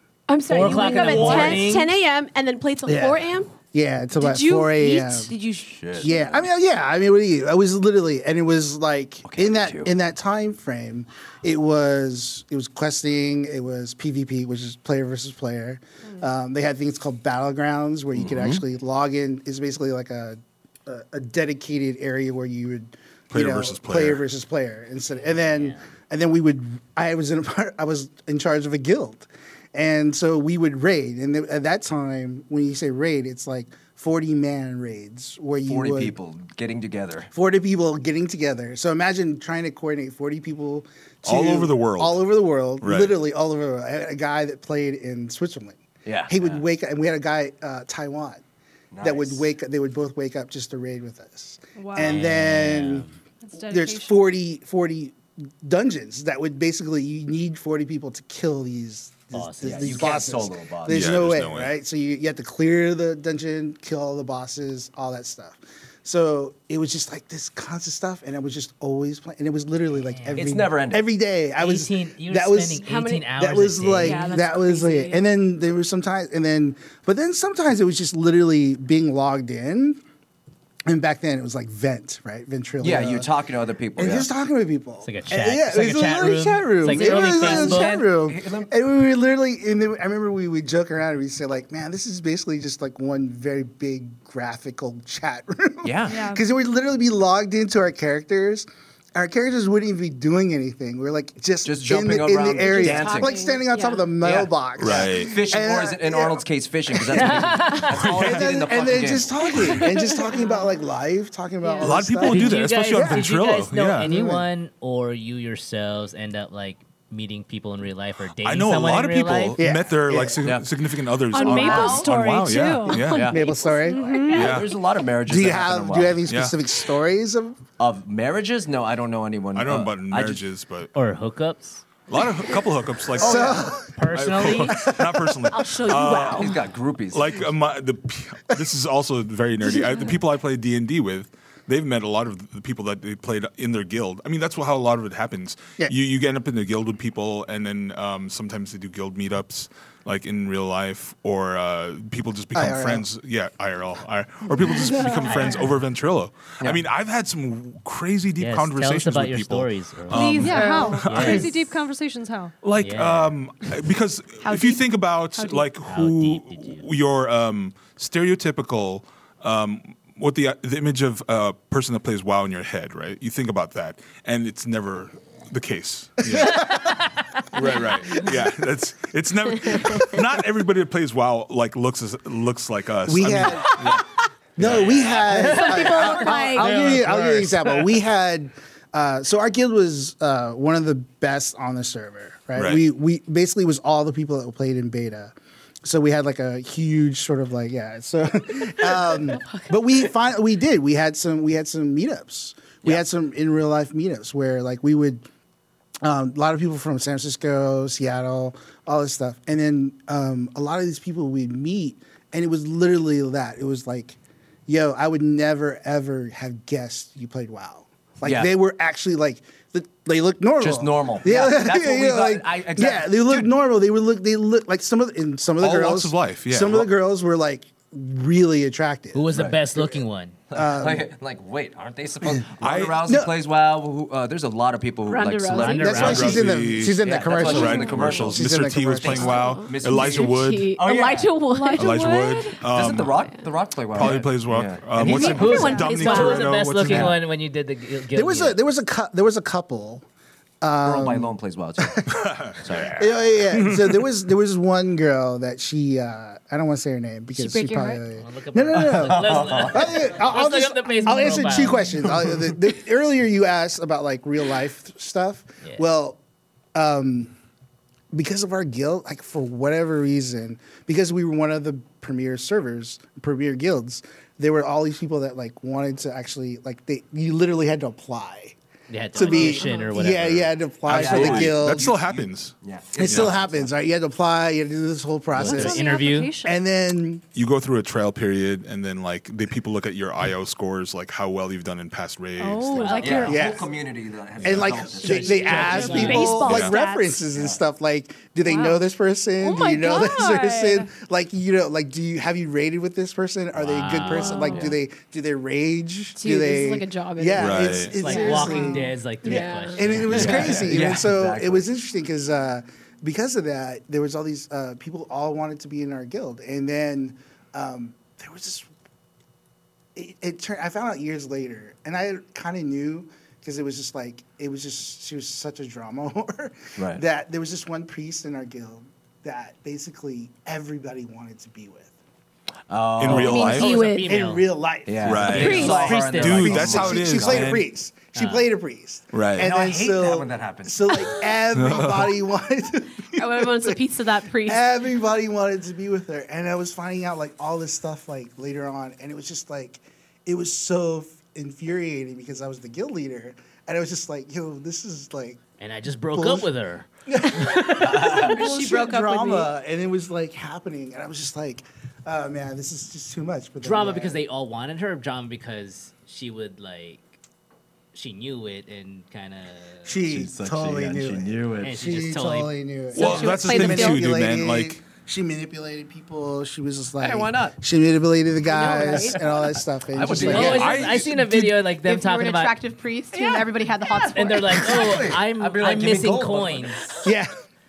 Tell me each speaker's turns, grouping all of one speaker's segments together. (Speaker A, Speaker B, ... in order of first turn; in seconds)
Speaker A: 0.3-3.5, 4.2-6.3, 72.7-73.3, 74.0-75.2, 102.6-104.1, 109.7-110.8, 111.6-112.0, 121.4-122.1, 123.3-124.6, 135.5-136.6, 155.0-155.3, 160.1-161.4, 164.4-164.8, 179.7-180.0, 185.5-186.7, 198.8-199.7, 235.1-236.0, 237.5-237.9, 239.1-242.3, 245.0-246.7, 257.4-258.0, 279.2-280.0, 292.4-293.4, 304.1-304.6, 306.2-310.4, 333.1-334.2, 343.2-344.6, 358.3-359.5, 373.0-374.1, 378.5-379.2, 381.8-385.0
Speaker B: 0.5-1.9, 25.2-25.8, 52.0-53.1, 59.3-60.0, 70.0-70.5, 71.6-74.4, 85.0-88.0, 107.1-108.0, 112.2-119.6, 130.9-131.8, 133.9-134.8, 158.4-161.5, 162.8-163.4, 165.8-166.9, 184.9-187.9, 229.1-230.4, 235.5-236.4, 245.0-248.6, 258.1-262.2, 278.9-280.6, 285.4-286.4, 292.9-293.3, 294.9-296.4, 303.6-304.5, 307.9-310.7, 333.1-334.5, 335.1-336.8, 338.1-338.5, 355.6-357.4, 363.6-367.2, 367.9-369.9, 371.6-372.6, 380.1-382.6, 384.1-387.0
Speaker C: 0.9-1.7, 2.9-5.4, 6.0-36.2, 37.3-48.4, 49.0-53.1, 53.6-72.8, 73.3-80.0, 80.9-83.3, 84.0-107.5, 108.0-113.3, 114.0-114.5, 119.6-120.5, 123.1-124.3, 125.2-127.6, 133.2-133.9, 134.8-135.6, 152.5-153.1, 176.3-176.9, 183.1-184.0, 184.6-195.3, 195.8-205.2, 206.0-231.1, 232.2-233.4, 235.8-239.6, 248.1-250.0, 250.6-266.2, 266.7-267.3, 268.1-278.6, 279.1-281.9, 283.0-287.2, 293.3-293.7, 294.4-318.7, 319.9-331.9, 333.5-343.8, 344.4-355.4, 356.1-356.5, 357.1-364.2, 369.9-380.8, 387.0-387.3
Speaker D: 5.7-6.4, 9.2-9.9, 18.1-18.6, 35.7-37.3, 46.0-46.6, 48.9-49.5, 59.6-61.3, 70.3-71.1, 82.8-84.3, 87.0-88.7, 95.8-96.2, 101.6-103.4, 104.2-109.3, 123.0-123.5, 124.3-126.2, 127.8-130.4, 133.2-133.6, 135.9-137.4, 184.7-185.1, 218.2-218.5, 220.6-223.5, 229.3-229.6, 230.5-236.4, 237.0-238.5, 239.0-241.4, 242.7-245.7, 250.8-253.2, 258.7-260.0, 280.9-283.7, 293.0-296.3, 297.3-297.6, 304.4-304.8, 310.1-311.6, 326.8-327.0, 332.7-333.6, 334.9-337.5, 339.4-341.2, 357.7-358.4, 370.0-371.8, 377.0-377.6, 378.8-379.2, 379.9-380.9, 383.9-387.0
Speaker E: 23.3-24.2, 41.2-42.3, 42.8-43.2, 60.9-61.7, 104.8-105.4, 107.9-108.5, 111.8-114.1, 118.4-123.3, 124.3-124.7, 126.3-126.6, 129.5-130.9, 132.1-136.6, 137.1-161.5, 162.6-176.8, 177.5-184.1, 184.6-185.3, 192.6-192.8, 225.6-226.9, 232.6-233.1, 235.9-240.8, 241.7-243.2, 243.9-247.2, 252.1-253.0, 253.5-254.1, 280.9-283.4, 287.4-293.3, 294.4-294.8, 296.4-296.7, 307.4-307.9, 333.0-333.7, 335.0-337.7, 339.1-339.5, 341.5-342.2, 372.9-374.8, 380.4-381.6
Speaker F: 51.8-52.2, 53.5-54.2, 74.0-74.6, 96.1-96.4, 121.3-123.2, 123.8-124.6, 154.8-155.6, 160.1-162.6, 165.4-165.6, 241.5-242.6, 285.4-286.6, 292.5-293.3, 295.3-297.2, 298.4-298.8, 299.4-300.9, 358.6-358.9, 383.1-383.4